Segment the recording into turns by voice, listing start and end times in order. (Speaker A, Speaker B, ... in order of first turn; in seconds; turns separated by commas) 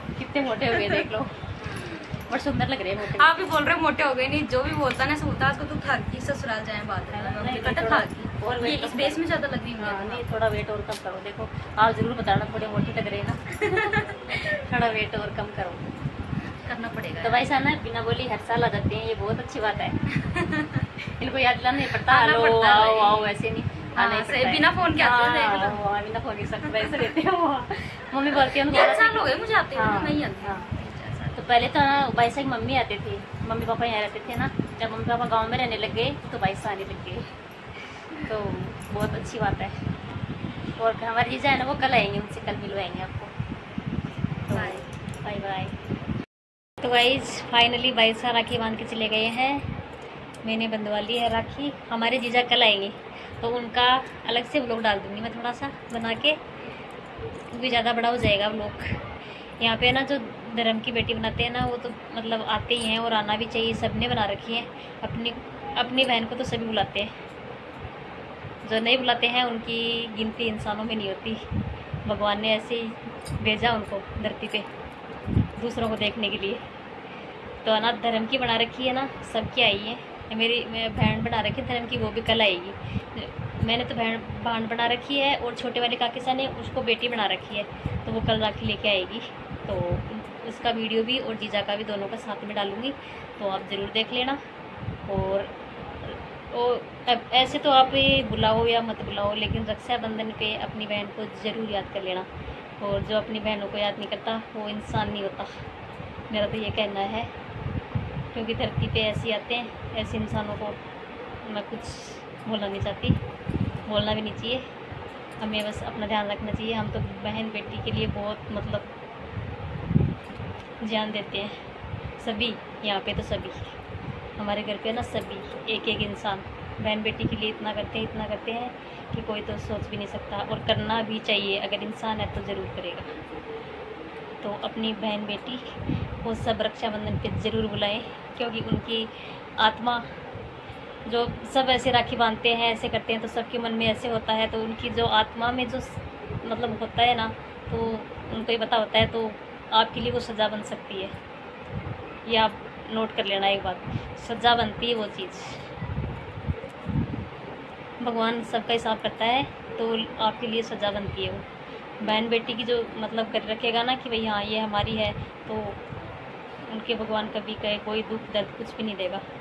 Speaker A: 0.1-3.4, Speaker B: 3.0-10.2, Speaker A: 7.1-9.2, Speaker A: 9.8-15.8, Speaker B: 16.5-17.4, Speaker A: 17.2-20.1, Speaker B: 20.2-20.9, Speaker A: 20.8-30.7, Speaker B: 22.0-23.4, Speaker B: 24.0-25.8, Speaker B: 28.6-31.4, Speaker A: 31.3-37.3, Speaker A: 38.0-39.9, Speaker A: 40.8-43.3, Speaker A: 44.5-45.8, Speaker B: 44.5-44.8, Speaker A: 46.8-49.8, Speaker A: 50.4-56.4, Speaker A: 57.5-59.0, Speaker A: 59.6-67.1, Speaker A: 68.7-71.4, Speaker A: 72.1-74.7, Speaker A: 75.6-76.6, Speaker A: 77.6-94.4, Speaker A: 95.1-102.3, Speaker A: 102.8-105.5, Speaker A: 106.3-107.3, Speaker A: 108.3-110.8, Speaker A: 111.4-113.2, Speaker A: 113.9-114.6, Speaker A: 115.4-118.9, Speaker A: 120.8-121.5, Speaker A: 122.2-123.8, Speaker A: 124.4-133.1, Speaker A: 134.4-140.1, Speaker A: 141.1-151.1, Speaker A: 152.3-155.7, Speaker A: 158.0-161.4, Speaker A: 162.0-165.8, Speaker A: 166.7-169.2